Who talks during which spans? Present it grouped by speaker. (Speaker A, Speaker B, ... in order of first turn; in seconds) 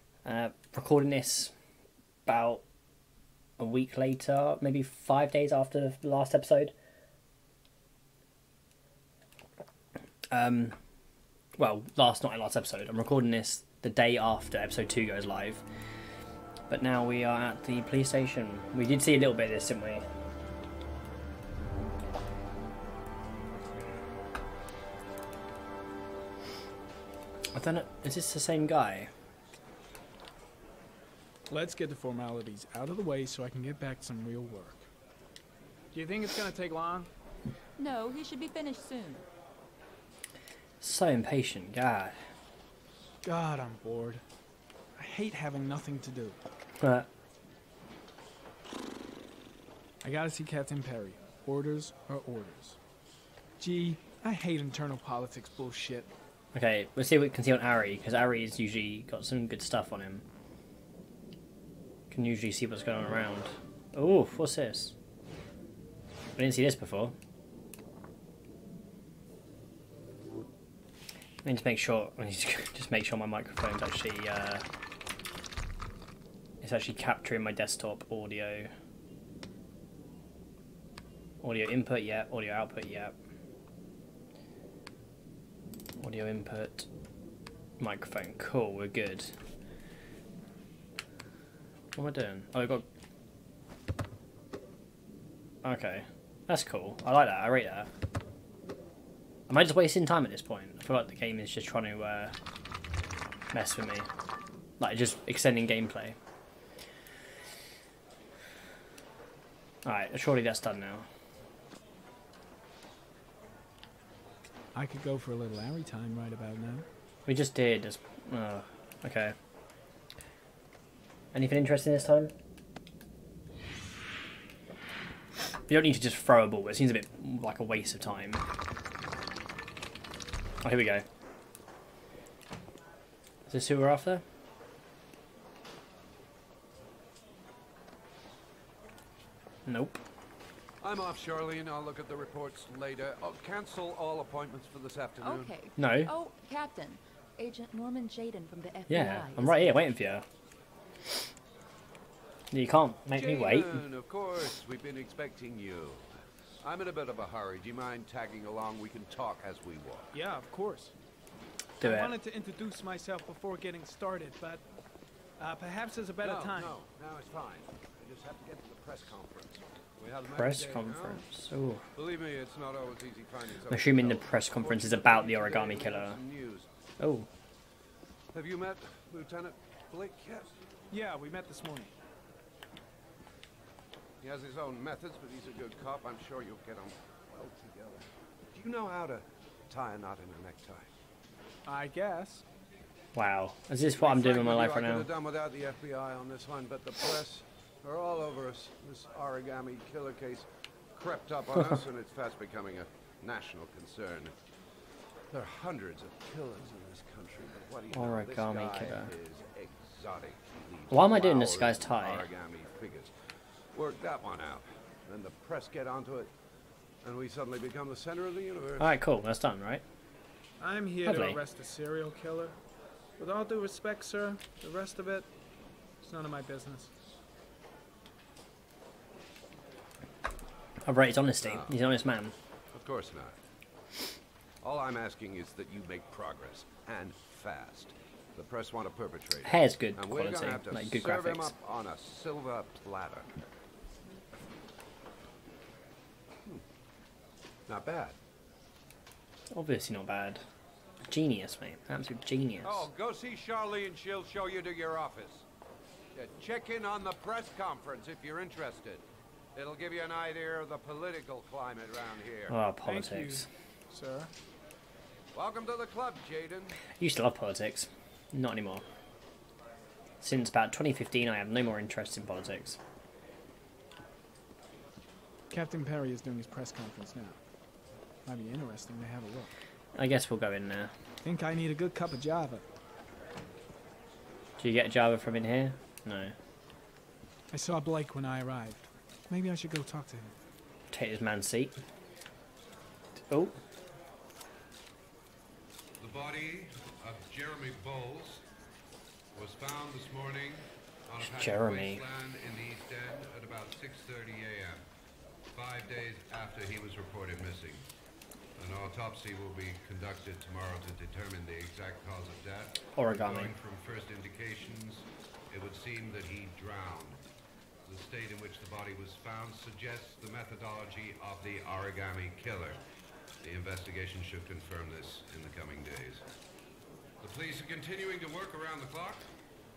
Speaker A: 0.2-1.5, 2.2-2.6, 3.6-6.7, 10.3-10.8, 11.6-15.6, 16.7-20.0, 27.5-29.1, 40.8-42.2, 46.8-47.1, 56.5-60.2, 62.1-65.0, 66.3-67.1, 71.4-74.6, 76.6-78.7, 81.4-83.2, 86.0-86.9, 87.8-89.3, 91.9-92.8, 95.6-97.9, 99.5-102.3, 103.5-104.1, 104.8-106.2, 109.8-111.0, 117.2-119.3, 121.3-122.3, 125.7-128.4, 130.6-131.0, 133.5-134.2, 139.7-140.0, 145.8-146.1, 148.9-150.2, 152.5-153.8, 161.8-162.2, 170.3-171.8, 173.7-176.2, 177.0-177.3, 193.2-195.1, 207.9-209.1, 210.9-212.2, 218.8-219.8, 221.0-221.4, 230.8-232.3, 239.4-241.5, 249.5-250.4, 251.1-252.9, 262.5-263.5, 267.0-268.9, 270.2-272.8, 279.9-280.9, 284.6-286.3, 290.9-291.8, 293.2-293.6, 301.2-302.0, 312.9-313.5
Speaker B: 31.5-34.9, 35.9-37.1, 43.2-44.2, 45.0-46.4, 50.0-52.8, 53.6-56.1, 114.7-116.9, 160.1-160.9, 161.8-164.7, 165.4-166.8, 180.9-181.9, 191.7-192.4, 220.6-222.6, 223.2-225.3, 226.0-226.9, 262.8-264.3, 275.5-277.4, 278.2-279.5, 281.2-282.6, 287.5-290.3
Speaker C: 37.8-39.2, 145.2-149.9
Speaker D: 140.8-145.5, 153.1-156.1, 156.6-160.1, 166.2-171.2, 171.9-176.7, 178.3-180.6, 184.2-190.9, 194.0-204.3, 205.3-213.1, 213.7-216.3, 217.0-218.9, 231.4-231.7, 232.7-233.4, 234.6-243.3, 247.7-248.2, 252.6-255.4, 256.1-259.0, 259.5-262.5, 265.3-266.8, 296.0-298.4, 299.4-304.8, 305.5-307.9, 308.6-317.2, 317.9-322.8, 323.4-326.2, 327.2-329.2